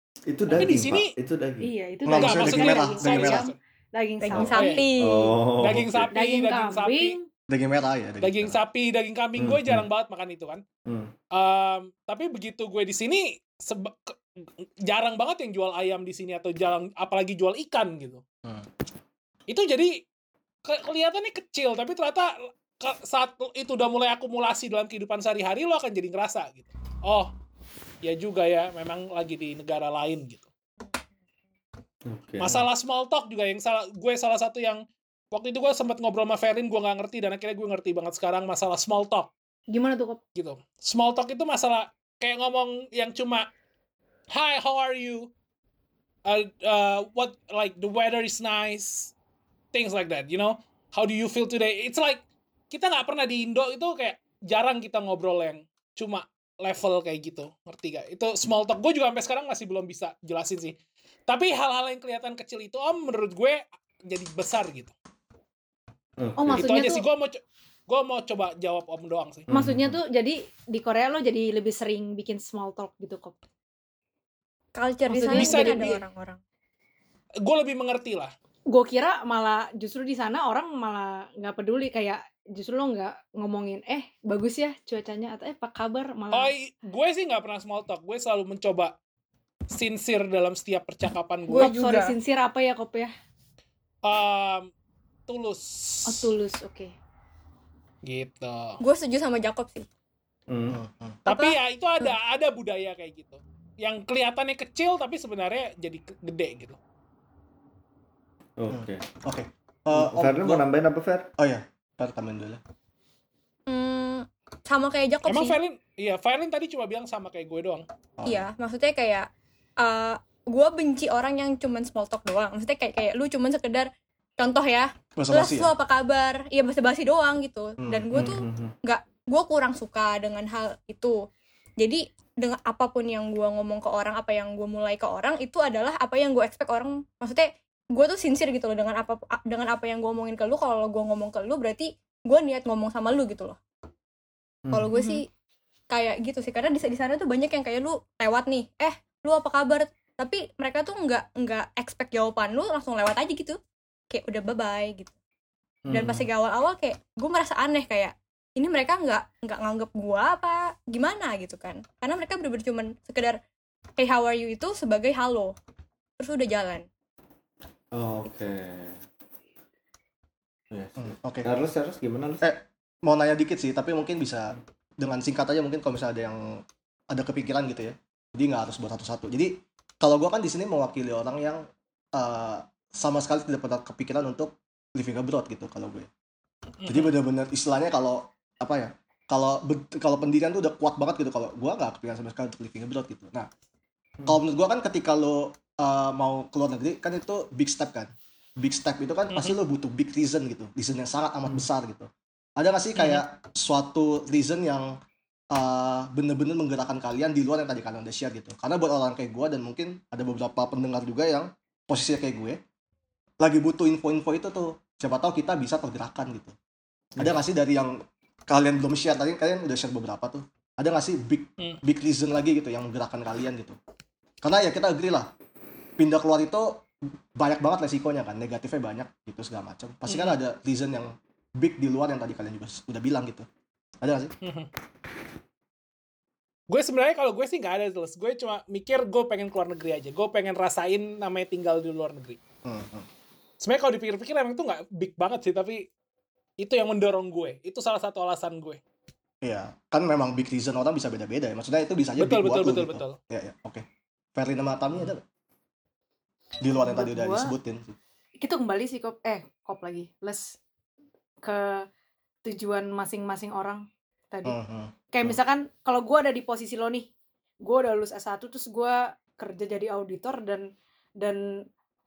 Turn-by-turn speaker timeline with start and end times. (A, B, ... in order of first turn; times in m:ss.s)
0:00.3-0:01.7 A
0:00.5-0:01.1 B
0:01.6-0:04.9 C
0:02.1-0:03.4 D
0:02.1-0:03.6 B
0:04.2-0:05.4 E
0:04.4-0:04.8 B
0:05.0-0:06.1 A
0:05.6-0:07.1 B
0:06.1-0:07.3 C
0:07.5-0:08.6 D
0:08.2-0:10.6 B
0:09.4-0:09.8 A
0:10.9-0:11.1 A
0:11.3-0:14.2 B
0:14.9-0:18.2 B
0:19.5-0:20.0 B
0:20.7-0:27.3 B
0:28.0-0:30.5 B
0:32.1-0:32.6 A
0:32.4-0:39.3 B
0:39.7-0:40.2 C
0:40.4-0:43.5 B
0:44.3-0:45.3 B
0:46.2-0:49.1 B
0:49.7-1:00.8 B
1:01.3-1:04.9 B
1:06.2-1:06.8 A
1:06.4-1:07.0 C
1:06.5-1:09.5 B
1:09.5-1:10.0 A
1:09.6-1:13.4 C
1:14.8-1:16.4 E
1:15.1-1:16.0 C
1:15.3-1:15.9 B
1:17.4-1:18.3 B
1:18.7-1:26.5 C
1:26.3-1:28.9 B
1:29.7-1:31.7 B
1:31.5-1:32.1 E
1:31.6-1:33.1 C
1:34.0-1:34.7 B
1:35.3-1:36.3 B
1:36.1-1:36.9 C
1:38.0-1:38.8 B
1:38.8-1:39.9 E
1:40.5-1:40.8 A
1:40.7-1:41.2 D
1:41.2-1:46.8 B
1:41.3-1:42.1 E
1:48.6-1:49.0 A
1:48.7-1:50.6 D
1:49.9-1:51.3 A
1:51.4-1:52.6 D
1:53.7-1:55.6 E
1:55.3-1:57.8 B
1:58.2-1:58.4 D
1:58.2-1:59.3 E
1:59.8-2:03.9 E
2:04.4-2:11.2 E
2:05.2-2:05.7 D
2:07.8-2:08.4 D
2:08.1-2:08.7 A
2:11.8-2:23.6 E
2:24.7-2:25.2 E
2:25.9-2:33.6 E
2:34.1-2:35.1 E
2:35.9-2:36.2 A
2:35.9-2:43.4 E
2:44.0-2:45.6 E
2:46.2-2:46.9 E
2:47.9-2:49.0 A
2:50.7-2:52.5 A
2:51.0-2:51.5 D
2:52.4-3:06.1 D
3:06.8-3:07.1 B
3:06.9-3:13.5 D
3:14.2-3:25.0 D
3:19.3-3:19.6 B
3:23.0-3:23.2 B
3:25.5-3:32.6 D
3:33.4-3:36.6 D
3:37.2-3:43.8 D
3:44.4-3:45.3 D
3:46.0-3:53.5 D
3:50.1-3:50.4 B
3:54.0-3:54.3 D
3:54.4-3:54.7 B
3:56.7-4:02.4 B
4:02.6-4:03.1 D
4:03.6-4:05.8 B
4:06.6-4:08.8 B
4:09.4-4:13.8 D
4:12.2-4:13.2 B
4:14.3-4:15.2 D
4:16.6-4:18.0 D
4:16.8-4:17.5 C
4:18.4-4:20.6 C
4:21.4-4:21.8 C
4:22.4-4:24.6 C
4:24.4-4:25.4 D
4:25.1-4:27.1 C
4:27.6-4:30.7 C
4:31.2-4:31.7 C